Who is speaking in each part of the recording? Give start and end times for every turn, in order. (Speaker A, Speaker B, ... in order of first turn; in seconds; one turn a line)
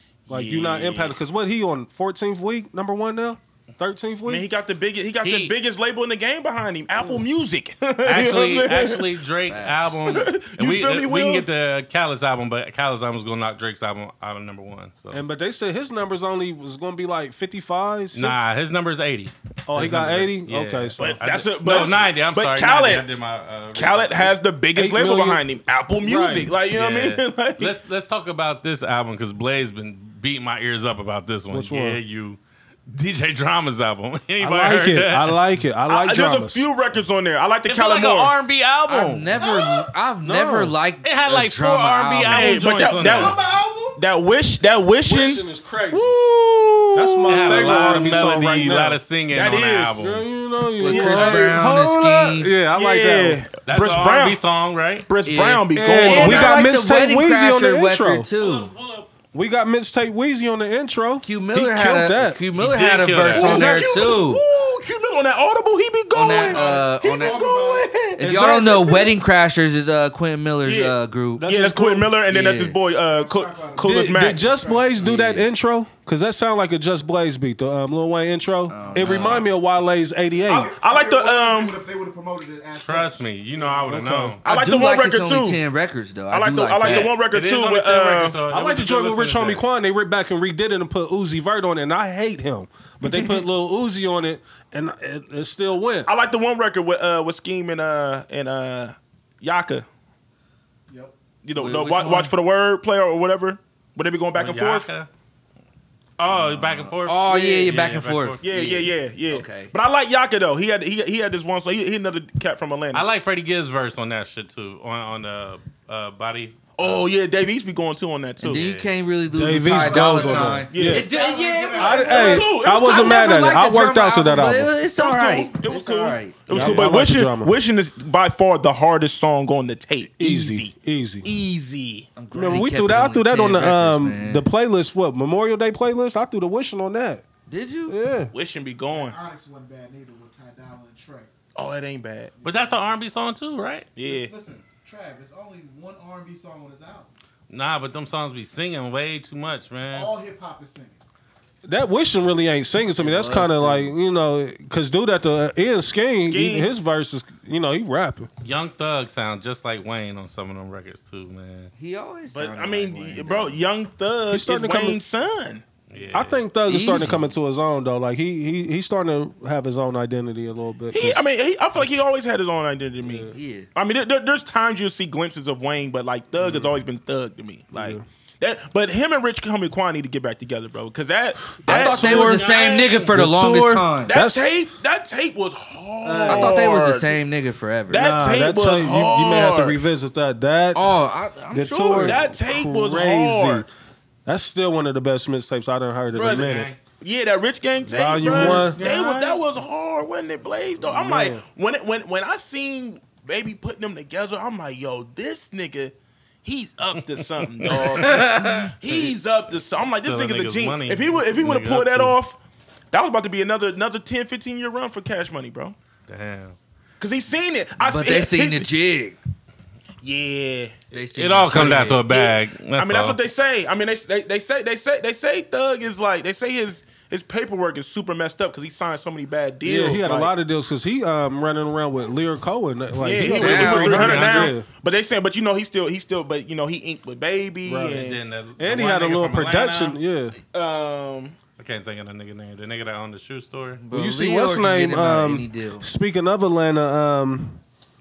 Speaker A: 0.3-1.1
Speaker B: 0.3-4.5
Speaker A: 4.2-9.1
Speaker C: 5.2-5.5
Speaker C: 8.0-15.2
Speaker D: 9.5-10.0
Speaker A: 10.1-11.5
Speaker B: 15.1-18.4
Speaker C: 18.1-24.3
Speaker B: 19.7-21.9
Speaker A: 21.0-23.1
Speaker A: 23.7-27.8
Speaker B: 24.7-25.4
Speaker B: 25.9-26.5
Speaker C: 26.7-35.4
Speaker B: 31.5-32.0
Speaker B: 34.4-36.7
Speaker A: 35.9-38.3
Speaker C: 37.7-39.4
Speaker D: 38.9-42.6
Speaker B: 40.2-40.7
Speaker C: 41.0-43.4
Speaker A: 42.3-43.4
Speaker E: 43.0-44.0
Speaker A: 43.9-48.1
Speaker B: 45.0-46.2
Speaker B: 46.9-49.0
Speaker C: 47.2-50.2
Speaker A: 49.3-50.2
Speaker B: 50.0-53.4
Speaker D: 50.8-52.5
Speaker A: 50.8-51.6
Speaker A: 52.7-54.4
Speaker C: 53.6-55.1
Speaker A: 55.1-56.7
Speaker D: 55.2-58.7
Speaker B: 55.7-58.3
Speaker C: 58.4-59.1
Speaker B: 59.3-62.4
Speaker D: 61.2-64.4
Speaker C: 62.5-64.0
Speaker A: 63.3-69.0
Speaker D: 66.1-67.4
Speaker E: 66.4-67.9
Speaker D: 68.2-71.5
Speaker B: 68.2-69.1
Speaker A: 70.6-74.4
Speaker B: 71.4-72.1
Speaker D: 72.2-72.8
Speaker E: 73.0-74.9
Speaker B: 73.8-80.7
Speaker D: 75.0-75.5
Speaker D: 78.7-79.5
Speaker E: 78.8-79.4
Speaker E: 80.4-83.9
Speaker A: 80.5-81.8
Speaker C: 82.7-84.4
Speaker B: 83.9-84.4
Speaker A: 84.4-85.6
Speaker D: 84.4-87.1
Speaker A: 86.3-88.4
Speaker C: 86.8-89.6
Speaker B: 88.5-96.1
Speaker A: 93.0-93.4
Speaker A: 96.1-99.8
Speaker E: 100.9-101.1
Speaker A: 101.4-104.9
Speaker D: 101.5-102.3
Speaker C: 104.3-105.1
Speaker C: 106.2-108.4
Speaker D: 106.3-109.7
Speaker A: 108.4-113.0
Speaker C: 112.9-116.6
Speaker A: 116.8-118.6
Speaker D: 118.4-126.8
Speaker C: 118.5-118.9
Speaker B: 119.3-121.0
Speaker E: 119.8-122.5
Speaker A: 120.7-121.1
Speaker B: 121.7-124.8
Speaker A: 122.1-123.4
Speaker A: 124.9-132.1
Speaker B: 126.5-127.5
Speaker B: 130.2-131.3
Speaker D: 132.2-134.5
Speaker B: 132.3-137.2
Speaker D: 137.5-137.9
Speaker B: 137.9-138.3
Speaker A: 138.3-139.2
Speaker E: 138.9-141.3
Speaker A: 141.5-142.3
Speaker E: 142.3-143.0
Speaker C: 142.4-143.9
Speaker A: 143.9-144.3
Speaker E: 144.0-147.1
Speaker C: 147.5-150.1
Speaker E: 149.9-151.0
Speaker B: 151.6-158.3
Speaker D: 153.0-153.9
Speaker A: 156.2-156.7
Speaker C: 158.4-161.7
Speaker D: 161.7-163.6
Speaker A: 162.3-165.6
Speaker B: 164.3-165.0
Speaker C: 165.9-166.4
Speaker B: 166.1-171.2
Speaker D: 166.7-167.3
Speaker A: 170.9-182.8
Speaker B: 173.0-173.3
Speaker D: 173.3-173.7
Speaker B: 176.4-176.8
Speaker B: 177.7-178.0
Speaker B: 181.6-184.5
Speaker D: 181.7-184.1
Speaker C: 182.3-182.9
Speaker A: 184.1-187.2
Speaker B: 186.0-186.6
Speaker D: 186.2-188.1
Speaker A: 187.9-189.8
Speaker B: 187.9-190.9
Speaker D: 190.7-192.2
Speaker B: 191.5-193.7
Speaker A: 191.9-193.7
Speaker B: 194.2-196.7
Speaker C: 196.1-196.8
Speaker A: 196.9-212.4
Speaker B: 197.9-198.8
Speaker C: 198.2-199.4
Speaker B: 200.8-201.4
Speaker C: 207.2-209.1
Speaker D: 207.7-208.7
Speaker C: 210.0-212.1
Speaker A: 212.9-215.7
Speaker C: 216.1-216.6
Speaker A: 217.0-218.7
Speaker D: 217.8-219.2
Speaker A: 220.0-220.7
Speaker D: 220.9-222.1
Speaker C: 221.1-223.2
Speaker A: 221.5-230.3
Speaker B: 229.6-234.7
Speaker A: 233.0-238.2
Speaker D: 233.2-234.2
Speaker C: 233.5-234.5
Speaker B: 237.6-238.0
Speaker C: 237.9-240.0
Speaker B: 238.6-240.4
Speaker A: 240.4-241.3
Speaker C: 241.6-243.8
Speaker D: 243.8-245.9
Speaker B: 243.9-247.6